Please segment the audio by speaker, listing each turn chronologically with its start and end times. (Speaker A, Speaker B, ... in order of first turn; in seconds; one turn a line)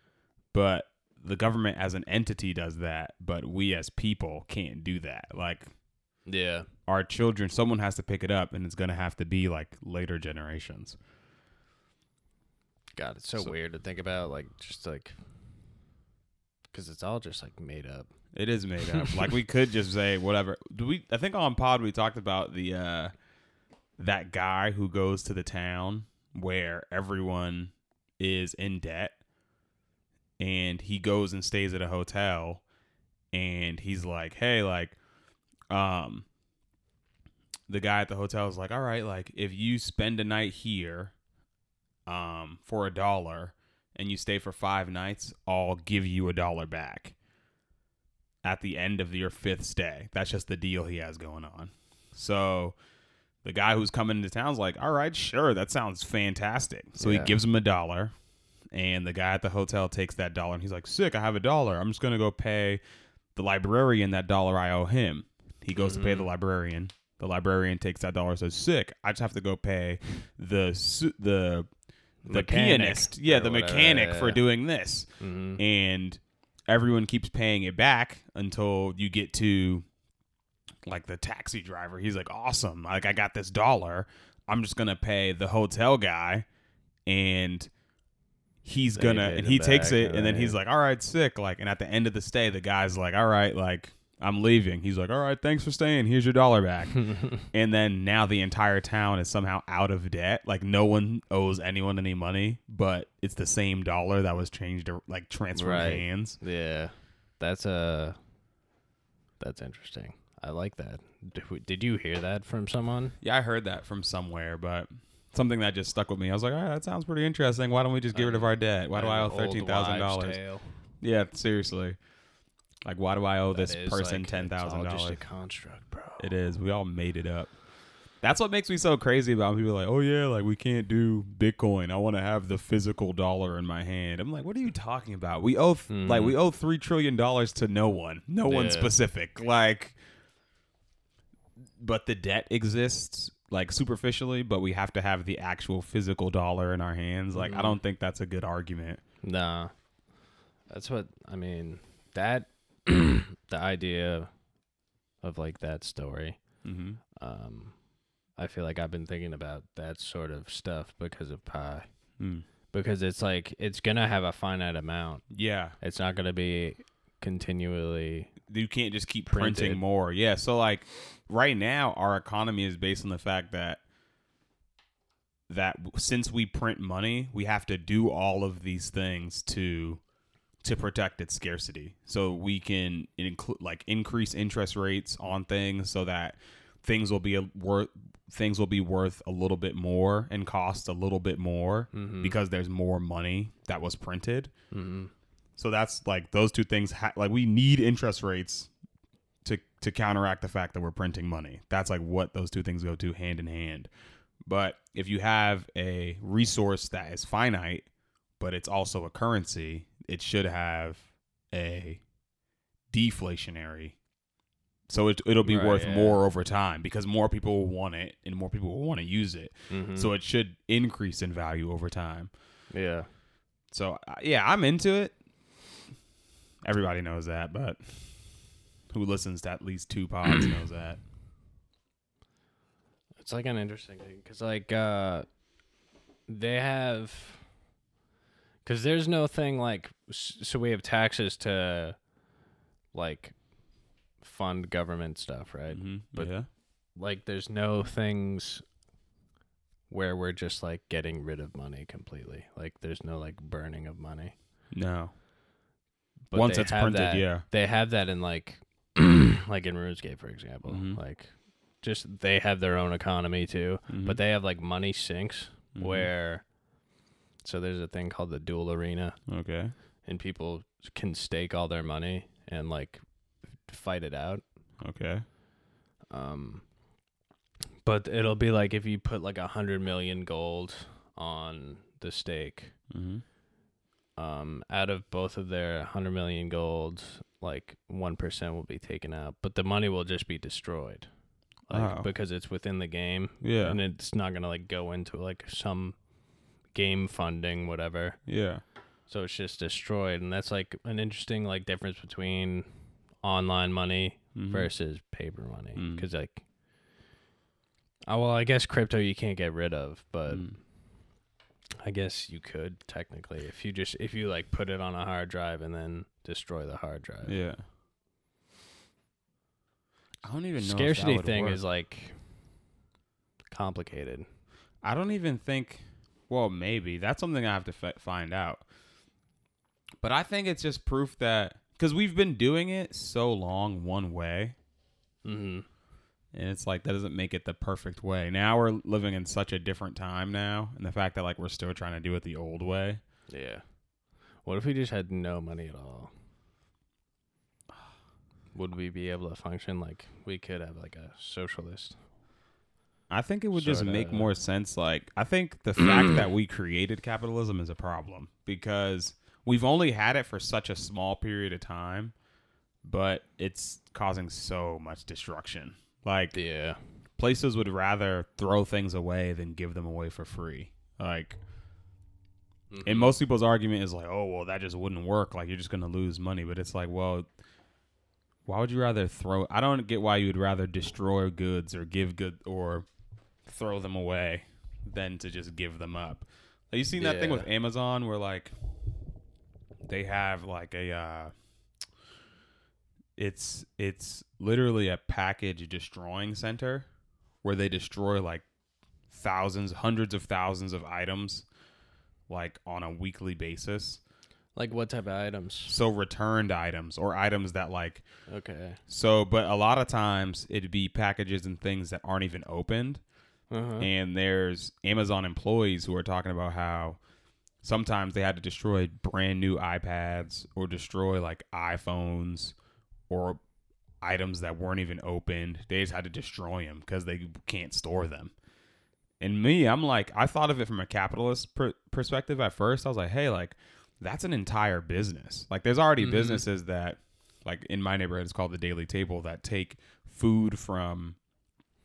Speaker A: 0.5-5.7
Speaker B: 6.3-6.7
Speaker A: 6.9-11.0
Speaker B: 13.0-15.2
Speaker B: 16.7-18.1
Speaker A: 18.3-23.1
Speaker B: 18.9-19.3
Speaker A: 24.0-29.2
Speaker A: 30.4-32.6
Speaker A: 33.3-35.0
Speaker A: 35.7-36.3
Speaker A: 37.7-41.1
Speaker A: 42.1-47.1
Speaker A: 48.4-52.8
Speaker A: 53.4-58.1
Speaker B: 57.0-57.4
Speaker A: 58.7-62.8
Speaker A: 63.4-71.7
Speaker B: 65.8-66.3
Speaker B: 72.2-74.4
Speaker A: 72.3-79.8
Speaker B: 75.2-75.6
Speaker A: 80.8-86.5
Speaker A: 87.1-87.7
Speaker A: 88.6-106.4
Speaker B: 89.0-90.6
Speaker B: 105.5-108.2
Speaker B: 109.4-113.2
Speaker A: 113.2-120.4
Speaker B: 118.1-120.7
Speaker A: 121.0-122.0
Speaker A: 122.8-125.2
Speaker B: 123.5-126.3
Speaker A: 126.2-127.5
Speaker A: 128.2-140.0
Speaker B: 135.9-136.4
Speaker B: 138.4-138.9
Speaker A: 141.8-149.0
Speaker B: 147.3-147.8
Speaker B: 149.2-149.7
Speaker B: 150.7-154.3
Speaker B: 155.2-156.4
Speaker A: 156.6-157.0
Speaker B: 157.2-157.8
Speaker B: 158.4-161.8
Speaker A: 162.2-162.5
Speaker B: 162.7-165.2
Speaker A: 165.3-165.8
Speaker B: 165.8-168.3
Speaker A: 168.5-173.8
Speaker B: 169.3-169.8
Speaker A: 175.5-180.0
Speaker A: 180.6-194.5
Speaker B: 191.9-192.4
Speaker B: 194.7-195.1
Speaker A: 195.6-198.7
Speaker A: 199.4-203.9
Speaker A: 204.4-207.9
Speaker A: 208.4-212.0
Speaker A: 212.9-214.0
Speaker A: 214.9-222.3
Speaker B: 215.4-216.2
Speaker B: 219.7-220.1
Speaker B: 222.7-223.1
Speaker A: 223.7-225.1
Speaker A: 226.7-228.2
Speaker A: 228.9-231.0
Speaker B: 233.2-235.3
Speaker B: 236.3-237.4
Speaker B: 238.7-242.0
Speaker B: 242.9-243.3
Speaker B: 244.2-246.3
Speaker A: 245.7-246.5
Speaker B: 247.0-248.6
Speaker B: 249.9-254.3
Speaker A: 254.7-255.1
Speaker B: 256.3-266.4
Speaker A: 256.3-257.4
Speaker A: 260.6-261.0
Speaker A: 263.9-264.2
Speaker A: 265.8-266.1
Speaker B: 267.4-269.2
Speaker A: 269.3-269.7
Speaker B: 270.1-273.0
Speaker B: 273.7-274.4
Speaker A: 274.8-275.2
Speaker B: 276.1-276.6
Speaker B: 277.9-282.7
Speaker A: 282.9-283.2
Speaker B: 284.2-291.1
Speaker B: 291.7-296.0
Speaker A: 291.7-292.1
Speaker A: 293.4-293.8
Speaker B: 296.7-298.2
Speaker A: 298.3-298.6
Speaker B: 299.1-302.7
Speaker B: 303.2-306.4
Speaker A: 304.4-304.7
Speaker A: 305.8-306.1
Speaker B: 308.1-310.5
Speaker A: 310.3-310.6
Speaker B: 311.8-317.4
Speaker A: 317.2-317.6
Speaker A: 320.2-321.6
Speaker B: 320.6-322.2
Speaker B: 323.5-324.3
Speaker A: 324.8-328.6
Speaker A: 330.0-334.6
Speaker B: 335.2-335.7
Speaker A: 336.3-343.0
Speaker B: 343.3-343.6
Speaker B: 344.4-346.1
Speaker B: 348.5-352.0
Speaker A: 353.1-362.1
Speaker B: 353.5-354.3
Speaker A: 362.8-366.4
Speaker B: 366.3-366.8
Speaker A: 367.2-371.4
Speaker B: 372.7-373.2
Speaker A: 372.8-377.3
Speaker A: 378.4-382.9
Speaker A: 383.5-388.5
Speaker B: 387.0-387.5
Speaker A: 389.9-391.3
Speaker A: 393.2-396.9
Speaker A: 397.4-398.4
Speaker A: 399.1-401.5
Speaker A: 402.3-404.0
Speaker B: 404.6-405.8
Speaker A: 405.7-408.0
Speaker B: 408.3-408.8
Speaker A: 408.9-413.0
Speaker B: 413.5-413.9
Speaker A: 413.8-417.0
Speaker A: 417.6-422.6
Speaker A: 423.1-423.4
Speaker A: 424.0-428.3
Speaker A: 429.2-441.2
Speaker B: 436.0-436.4